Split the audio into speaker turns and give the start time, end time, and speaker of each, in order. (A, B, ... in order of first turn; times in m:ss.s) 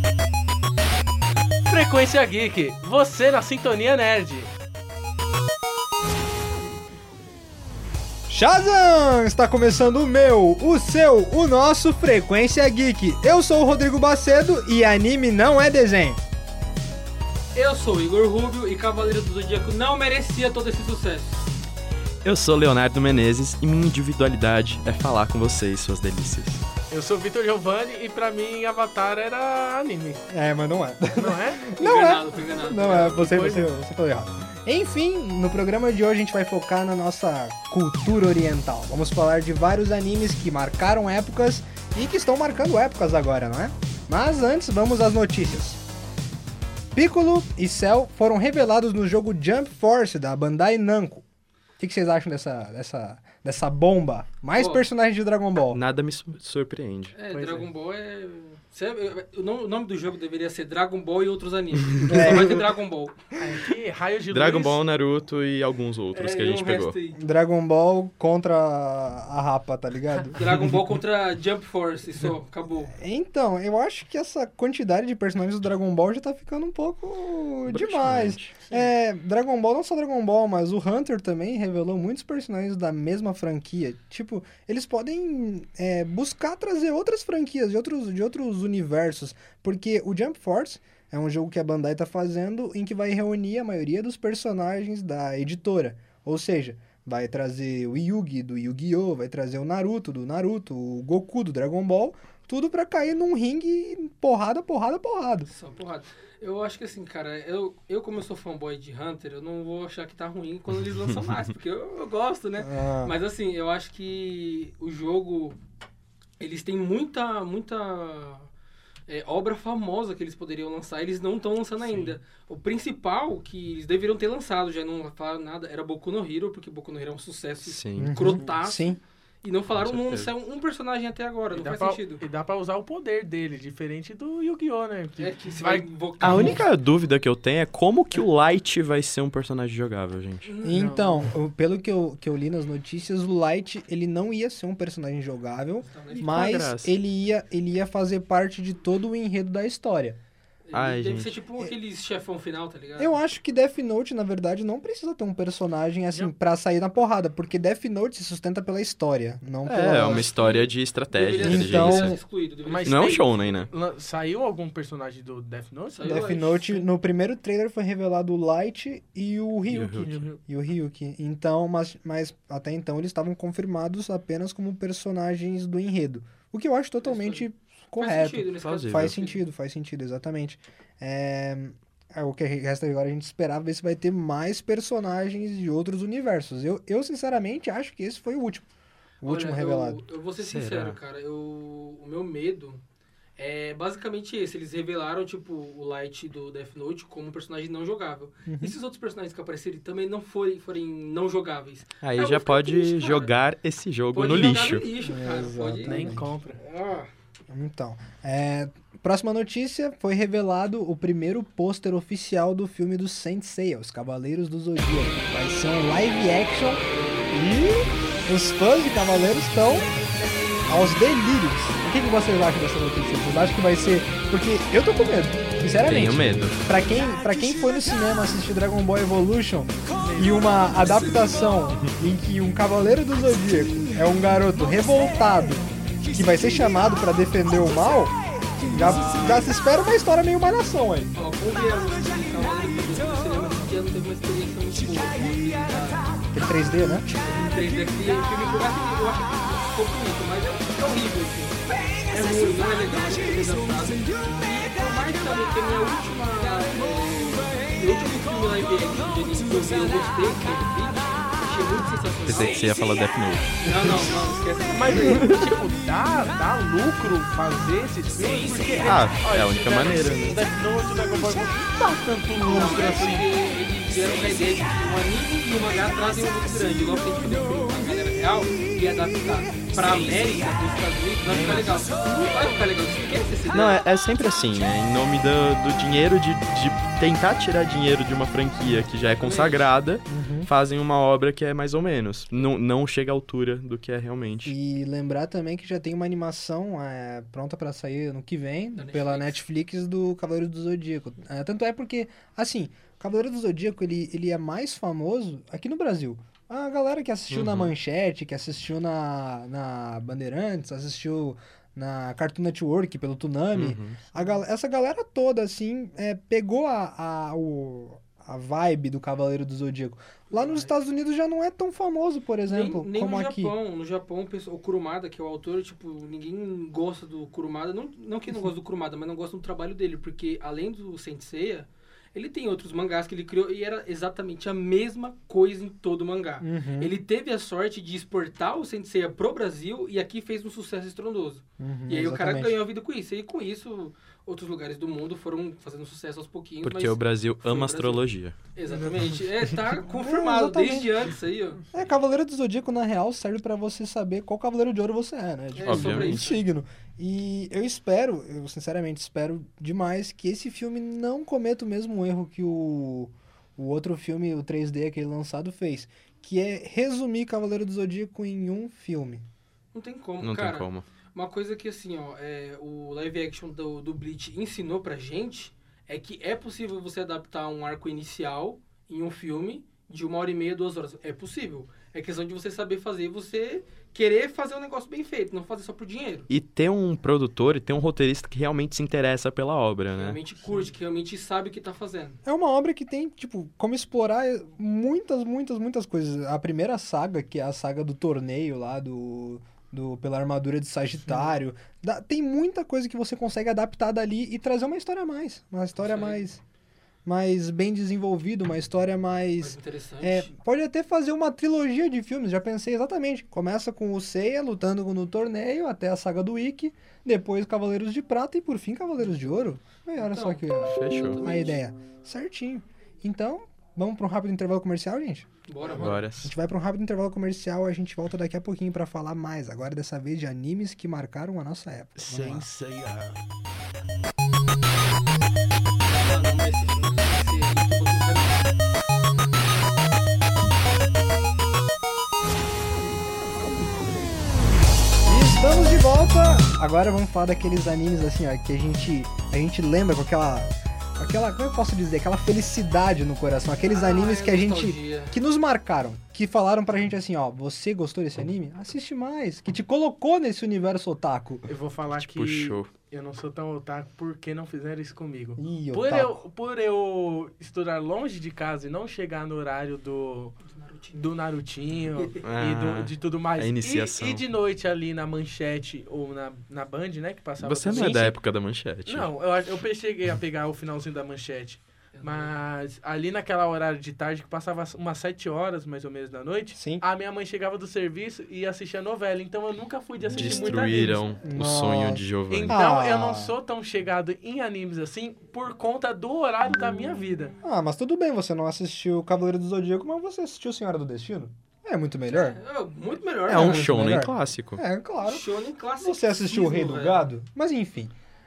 0:01.6-0:04.5 A
0:08.3-0:16.2 B
0:17.6-0:21.5 C
0:22.2-0:26.6 D
0:26.9-0:30.2 A
0:30.3-0:45.8 B
0:31.2-0:31.6 A
0:31.8-0:33.2 C
0:32.8-0:33.7 A
0:46.9-0:51.2 B
0:51.8-0:55.8 B
0:54.6-0:54.8 C
0:55.7-0:57.2 D
0:57.1-1:03.2 C
0:57.3-0:57.7 A
1:02.0-1:02.4 D
1:02.0-1:02.8 B
1:03.4-1:04.8 A
1:04.3-1:07.0 D
1:06.1-1:07.2 C
1:07.2-1:10.4 B
1:10.4-1:12.9 C
1:12.9-1:45.5 B
1:17.7-1:18.6 D
1:45.5-1:55.6 C
1:50.8-1:51.5 D
1:52.6-1:53.2 B
1:56.4-1:58.5 C
1:59.1-2:12.2 C
2:01.9-2:02.2 A
2:07.6-2:08.4 D
2:08.0-2:09.0 B
2:09.7-2:10.3 D
2:11.5-2:16.6 A
2:15.2-2:16.6 C
2:16.2-2:20.5 D
2:20.4-2:20.9 C
2:20.6-2:30.2 B
2:20.7-2:21.3 A
2:25.8-2:26.4 C
2:26.2-2:26.9 D
2:30.7-2:33.2 C
2:30.7-2:31.4 D
2:33.0-2:40.3 B
2:39.7-2:42.2 D
2:40.0-2:43.7 C
2:41.4-2:42.2 B
2:42.6-2:46.2 A
2:42.8-2:43.7 D
2:45.9-2:46.9 C
2:46.0-3:08.7 B
2:49.7-2:50.1 D
2:49.9-2:50.4 A
2:57.0-2:57.4 C
2:58.0-2:59.4 C
2:58.6-2:59.2 D
3:09.2-3:10.0 B
3:09.2-3:12.8 C
3:10.4-3:11.0 D
3:13.4-3:23.3 C
3:18.5-3:18.8 B
3:22.0-3:24.9 D
3:24.1-3:27.1 C
3:25.0-3:26.3 B
3:25.8-3:26.6 A
3:27.5-3:39.9 B
3:36.9-3:37.3 C
3:40.7-3:58.2 B
3:45.8-3:46.6 D
3:50.0-3:51.1 A
3:58.7-4:01.1 B
4:01.2-4:06.1 C
4:06.3-4:07.1 B
4:07.2-4:22.6 C
4:22.3-4:24.0 D
4:23.6-4:25.3 C
4:24.7-4:33.3 A
4:28.6-4:28.9 C
4:28.8-4:30.4 D
4:32.4-4:43.8 C
4:41.2-4:41.7 A
4:43.5-4:54.6 D
4:49.2-4:49.6 C
4:50.1-4:50.5 B
4:54.5-5:23.5 B
4:58.8-4:59.4 C
5:07.3-5:07.7 D
5:13.5-5:14.1 D
5:20.3-5:20.7 C
5:22.5-5:51.6 C
5:36.4-5:36.9 B
5:41.6-5:42.6 B
5:46.6-5:48.4 D
5:49.8-5:51.1 B
5:51.7-6:09.2 B
5:55.6-5:56.4 C
5:55.6-5:56.2 D
6:09.7-6:26.3 C
6:10.2-6:10.9 D
6:26.3-6:30.2 D
6:30.0-6:32.2 C
6:32.2-6:46.4 B
6:45.8-6:46.2 C
6:47.0-7:12.5 B
6:49.4-6:50.3 C
7:00.0-7:01.6 C
7:00.7-7:01.2 D
7:05.5-7:06.0 C
7:05.7-7:06.3 D
7:12.1-7:13.2 A
7:12.2-7:12.4 D
7:15.8-7:18.5 C
7:25.0-7:41.5 B
7:33.7-7:35.2 C
7:41.5-7:50.4 A
7:42.0-7:42.7 D
7:45.4-7:46.2 B
7:50.4-7:51.0 C
7:50.9-7:58.2 A
7:52.2-7:54.2 D
7:57.4-7:59.1 D
7:58.9-8:11.0 A
8:01.9-8:02.4 C
8:06.6-8:06.8 B
8:10.1-8:12.6 D
8:11.2-8:13.4 B
8:12.3-8:17.3 A
8:17.4-8:22.4 B
8:22.1-8:23.7 C
8:23.3-8:24.6 D
8:23.3-8:27.9 B
8:25.0-8:27.1 C